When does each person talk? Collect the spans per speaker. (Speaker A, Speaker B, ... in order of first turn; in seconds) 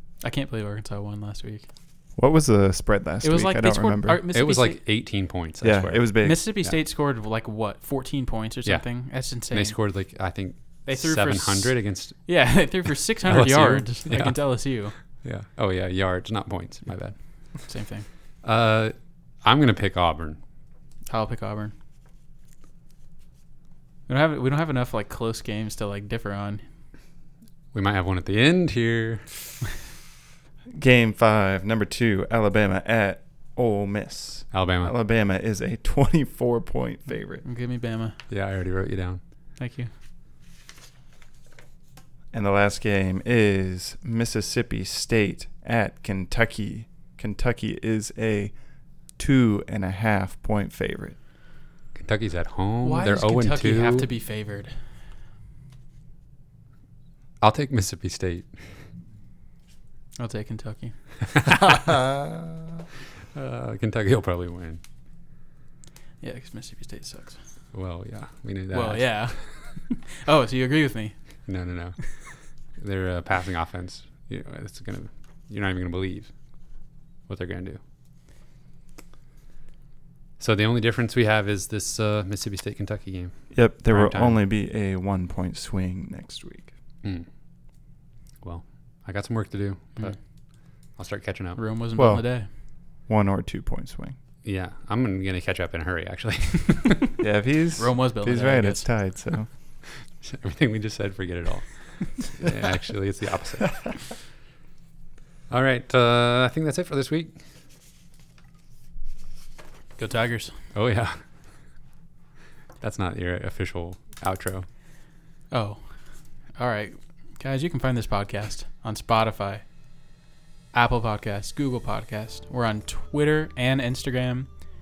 Speaker A: 0.2-1.7, 3.2-4.8, 6.2-9.8, 10.8-15.0, 17.6-18.1, 21.1-21.7, 24.1-26.6, 37.4-38.2, 39.6-39.9, 52.8-54.8, 60.2-61.3, 66.2-67.7, 68.7-71.5, 91.5-92.5, 97.8-98.9, 110.0-110.6, 115.5-119.6, 120.7-124.7
Speaker B: 2.1-4.2, 5.6-6.4, 30.7-37.4, 42.3-48.6, 49.1-51.2, 83.5-86.7, 92.2-94.2, 97.2-99.5
Speaker C: 4.3-6.8, 8.6-17.6, 18.4-20.4, 27.7-29.3, 34.5-34.9, 38.3-39.2, 51.9-54.1, 57.4-58.7, 63.3-64.8, 67.7-69.5, 71.5-77.8, 80.4-84.4, 87.0-87.3, 88.4-92.2, 94.4-97.0, 100.0-104.1, 105.5-107.4, 110.7-111.5, 112.8-114.7